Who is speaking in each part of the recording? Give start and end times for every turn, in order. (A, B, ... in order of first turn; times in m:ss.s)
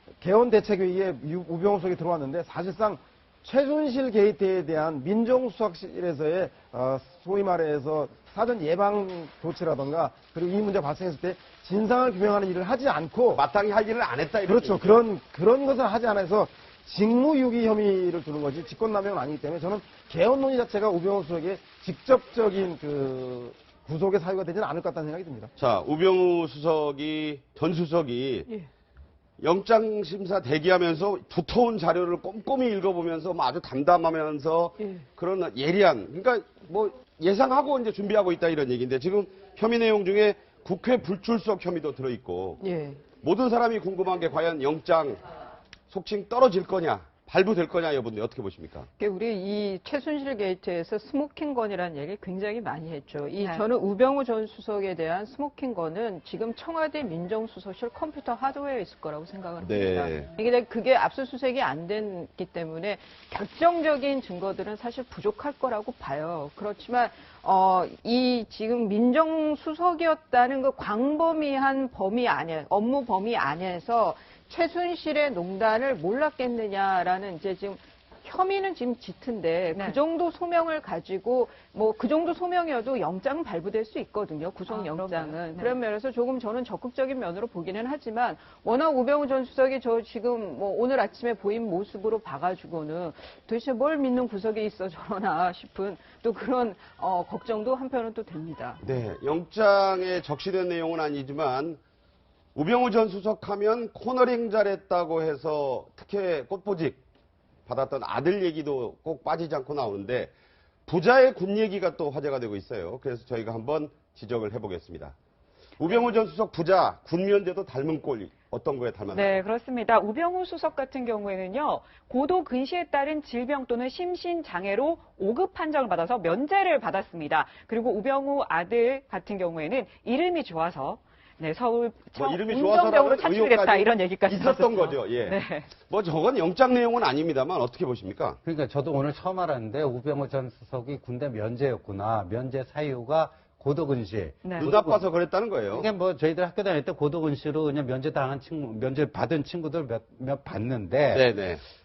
0:00.2-0:13.4 A
0:13.3-0:15.0 B
0:14.5-0:25.5 A
0:25.6-0:28.5 B
0:29.4-0:42.6 B
0:42.6-0:43.0 C
0:43.2-0:45.2 B
0:45.9-0:48.9 B
0:49.0-1:38.8 C
0:59.6-1:00.3 B
1:19.7-1:20.0 D
1:24.7-1:25.8 D
1:38.8-1:41.8 B
1:42.6-1:47.0 B
1:47.7-1:50.3 B
1:50.9-1:55.2 B
1:55.8-1:59.4 B
1:59.1-2:15.7 D
2:12.2-2:18.4 B
2:18.4-2:25.1 E
2:24.4-2:24.7 D
2:24.6-2:25.9 B
2:25.6-2:31.3 E
2:31.1-2:31.6 B